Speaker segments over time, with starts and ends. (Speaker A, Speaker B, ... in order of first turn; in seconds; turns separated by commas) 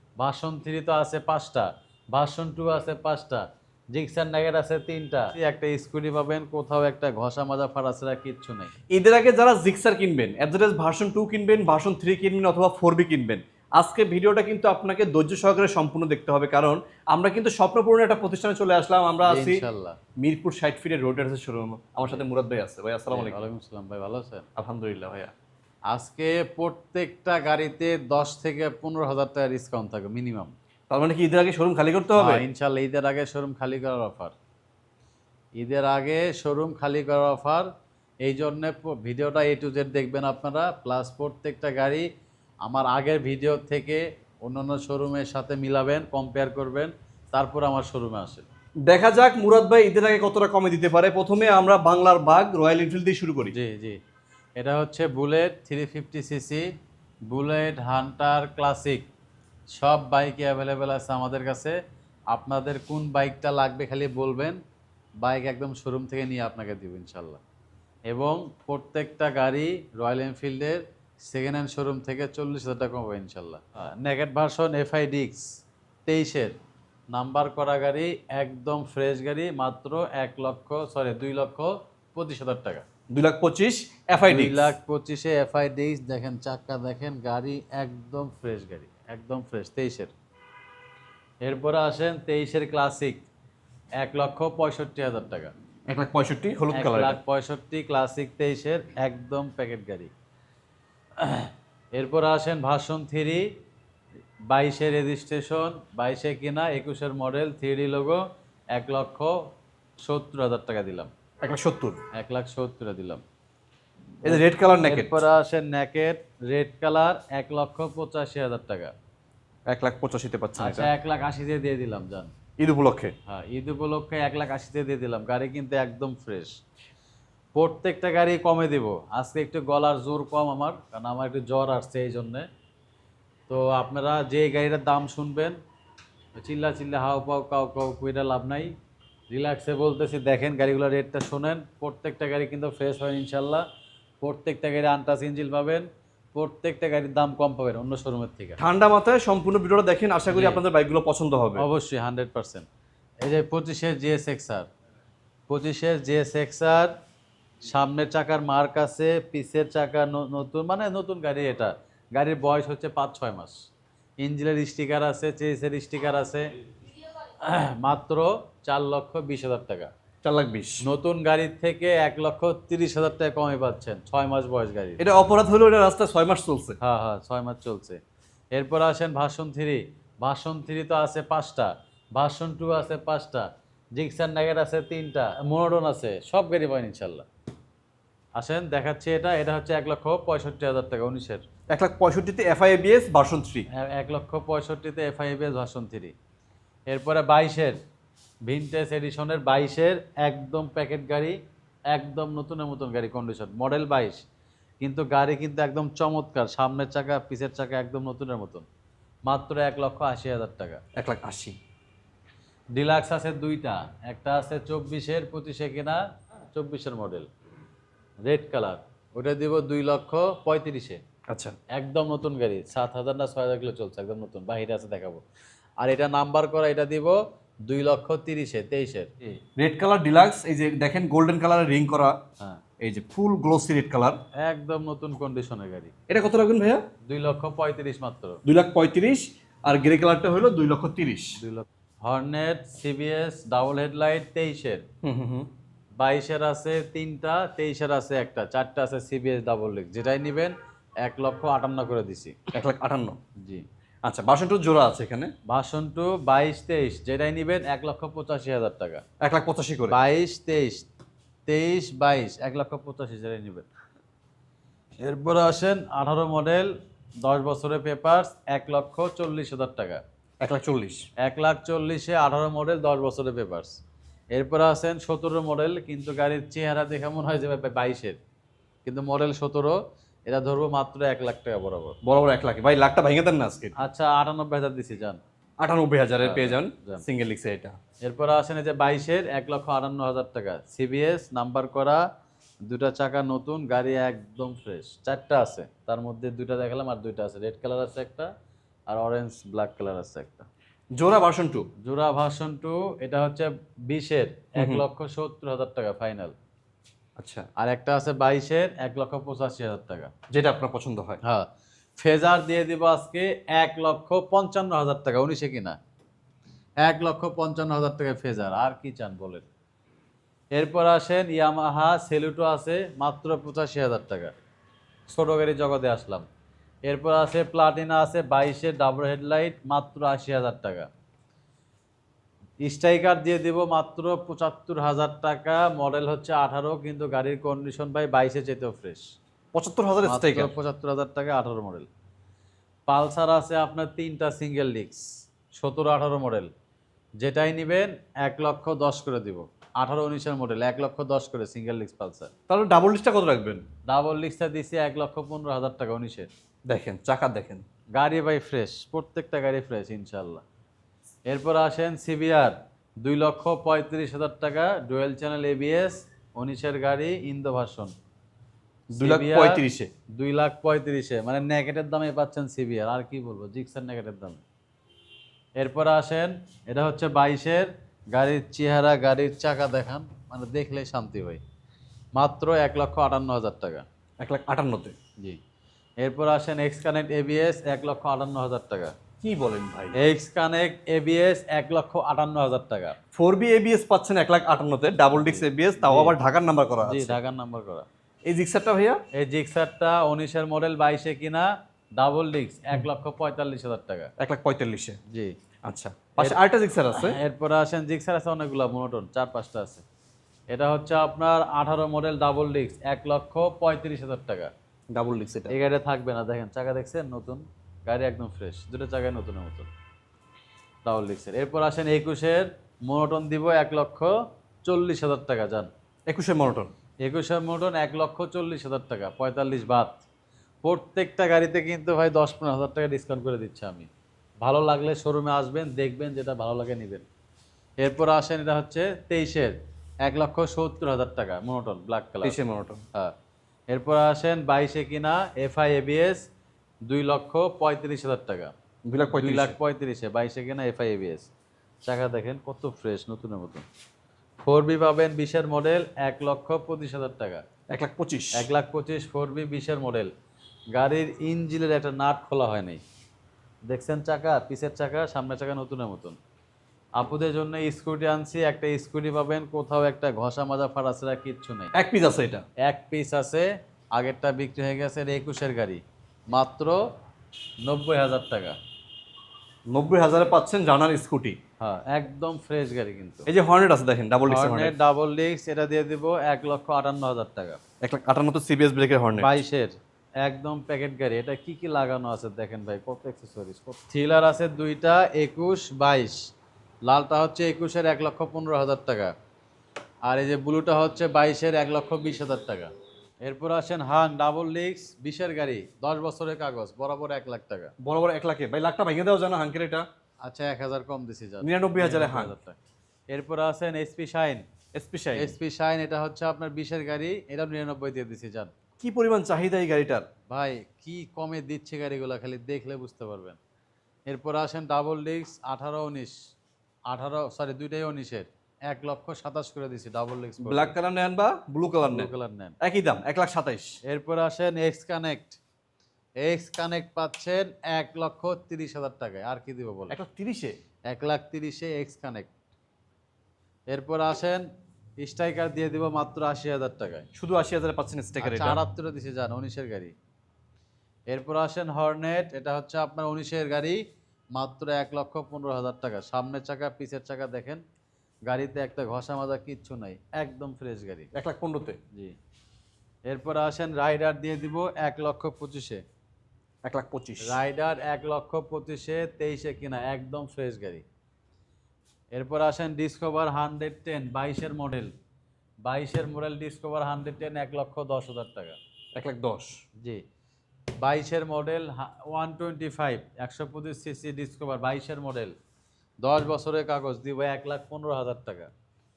Speaker A: 0.2-8.7, Speaker B: 8.9-19.6, Speaker A: 19.2-20.0, Speaker B: 20.2-23.4, Speaker A: 23.1-24.4, Speaker B: 24.6-25.3, Speaker A: 25.9-30.5, Speaker B: 30.9-32.4, Speaker A: 32.2-34.3, Speaker A: 35.6-37.7, Speaker A: 38.2-42.0, Speaker A: 42.6-48.5, Speaker B: 48.9-53.5, Speaker A: 53.5-54.0, Speaker A: 54.6-56.6, Speaker A: 57.3-59.0, Speaker A: 59.7-61.8, Speaker A: 62.3-64.6, Speaker A: 65.2-67.4, Speaker A: 68.1-75.5, Speaker A: 76.1-76.5, Speaker A: 77.1-82.8, Speaker B: 83.1-84.7, Speaker A: 84.2-90.1, Speaker A: 91.4-93.2, Speaker A: 94.0-95.5, Speaker B: 95.9-97.2, Speaker A: 96.7-100.1, Speaker A: 101.2-103.5, Speaker A: 104.5-108.2, Speaker A: 108.7-109.4, Speaker A: 110.0-111.1, Speaker B: 111.4-112.0, Speaker A: 112.1-113.2, Speaker B: 114.2-115.2, Speaker A: 114.3-118.9, Speaker B: 119.7-120.9, Speaker A: 120.6-122.3, Speaker B: 122.6-123.1, Speaker A: 123.3-126.6, Speaker A: 127.5-132.5, Speaker A: 133.5-135.6, Speaker A: 136.4-138.7, Speaker A: 139.3-143.6, Speaker A: 144.2-148.6, Speaker B: 148.6-151.6, Speaker A: 150.3-150.6, Speaker A: 151.6-152.7, Speaker A: 153.2-154.7, Speaker A: 155.5-156.9, Speaker A: 157.6-163.6, Speaker A: 164.2-166.5, Speaker A: 167.4-169.9, Speaker B: 170.2-170.8, Speaker A: 170.8-175.0, Speaker B: 175.0-176.8, Speaker A: 176.8-178.0, Speaker A: 178.5-187.2, Speaker A: 188.4-191.4, Speaker B: 191.7-193.7, Speaker A: 193.7-196.1, Speaker A: 196.9-197.8, Speaker A: 198.4-201.4, Speaker A: 201.9-204.2, Speaker A: 204.8-208.7, Speaker A: 209.3-210.8, Speaker B: 210.9-211.6, Speaker A: 212.7-216.0, Speaker A: 216.5-217.3, Speaker A: 218.2-221.0, Speaker B: 221.3-221.6, Speaker A: 221.7-225.2, Speaker A: 225.8-229.4, Speaker B: 229.6-232.2, Speaker B: 232.8-234.2, Speaker A: 234.4-235.9, Speaker B: 236.1-236.8, Speaker A: 237.1-238.4, Speaker B: 238.4-241.4, Speaker A: 241.4-244.8, Speaker B: 245.0-245.5, Speaker A: 246.0-252.4, Speaker B: 252.5-253.2, Speaker B: 254.0-255.3, Speaker A: 255.5-259.0, Speaker B: 259.2-260.0, Speaker A: 259.9-260.9, Speaker A: 261.5-263.7, Speaker A: 265.0-270.0, Speaker B: 270.4-271.1, Speaker A: 271.2-273.8, Speaker A: 274.3-278.2, Speaker A: 278.8-282.0, Speaker B: 282.0-283.8, Speaker A: 283.8-285.2, Speaker B: 285.6-287.8, Speaker A: 286.2-287.0, Speaker A: 288.0-292.0, Speaker A: 292.6-298.3, Speaker A: 298.9-300.5, Speaker B: 300.9-301.7, Speaker A: 301.8-306.3, Speaker B: 304.6-304.8, Speaker B: 307.2-307.5, Speaker A: 307.6-310.1, Speaker B: 310.3-311.2, Speaker A: 312.0-315.8, Speaker A: 316.8-319.5, Speaker A: 320.5-324.4, Speaker A: 325.1-326.2, Speaker A: 326.9-330.9, Speaker A: 332.6-339.1, Speaker B: 339.5-340.5, Speaker A: 340.0-341.9, Speaker A: 342.9-345.1, Speaker A: 345.6-346.5, Speaker A: 347.2-352.3, Speaker B: 352.5-353.6, Speaker A: 353.9-356.3, Speaker B: 356.7-357.6, Speaker A: 358.0-360.4, Speaker A: 361.3-367.9, Speaker A: 368.9-369.6, Speaker B: 368.9-369.9, Speaker A: 370.1-374.4, Speaker A: 375.6-381.4, Speaker A: 382.1-383.8, Speaker B: 384.2-384.9, Speaker A: 386.0-388.9, Speaker B: 389.2-389.9, Speaker A: 389.9-392.9, Speaker B: 393.1-397.2, Speaker A: 395.1-396.1, Speaker A: 396.8-397.9, Speaker B: 398.2-399.0, Speaker A: 399.1-404.1, Speaker B: 404.2-405.0, Speaker B: 405.6-407.2, Speaker A: 406.9-409.8, Speaker A: 410.5-414.5, Speaker B: 414.9-415.5, Speaker A: 415.5-419.7, Speaker A: 420.8-424.1, Speaker A: 424.6-425.7, Speaker B: 426.1-426.7, Speaker A: 427.0-430.0, Speaker A: 430.6-433.9, Speaker A: 434.4-437.1, Speaker A: 437.8-442.4, Speaker B: 442.2-442.8, Speaker A: 443.7-446.2, Speaker A: 446.9-448.5, Speaker B: 448.9-449.6, Speaker A: 449.1-451.3, Speaker A: 451.9-453.6, Speaker A: 454.4-457.4, Speaker B: 457.7-458.5, Speaker A: 458.4-460.1, Speaker A: 460.7-462.8, Speaker A: 463.7-466.2, Speaker A: 467.0-471.7, Speaker B: 471.7-472.4, Speaker A: 472.6-476.8, Speaker A: 477.6-478.6, Speaker B: 479.7-481.4, Speaker A: 481.6-483.3, Speaker B: 483.3-484.8, Speaker A: 484.3-487.6, Speaker B: 487.8-489.4, Speaker A: 489.2-496.2, Speaker A: 496.9-499.1, Speaker A: 500.1-502.7, Speaker A: 503.2-507.7, Speaker B: 507.8-509.9, Speaker A: 510.2-512.6, Speaker B: 511.4-512.3, Speaker A: 513.1-514.5, Speaker B: 514.7-515.4, Speaker A: 515.1-518.5, Speaker B: 518.8-520.0, Speaker A: 520.3-523.4, Speaker A: 524.1-526.1, Speaker A: 526.9-530.7, Speaker B: 530.4-533.8, Speaker A: 531.8-532.6, Speaker A: 533.9-535.4, Speaker A: 536.2-540.0, Speaker B: 539.9-540.6, Speaker A: 540.9-542.3, Speaker A: 543.7-544.5, Speaker A: 545.0-547.1, Speaker B: 547.1-548.6, Speaker A: 548.2-549.9, Speaker A: 551.1-553.8, Speaker A: 554.3-557.6, Speaker A: 558.3-561.1, Speaker B: 561.1-561.8, Speaker A: 563.1-565.8, Speaker B: 566.6-567.4, Speaker A: 567.2-570.8, Speaker A: 572.1-574.9, Speaker A: 575.6-578.6, Speaker B: 578.9-579.6, Speaker A: 580.8-585.3, Speaker A: 586.0-588.5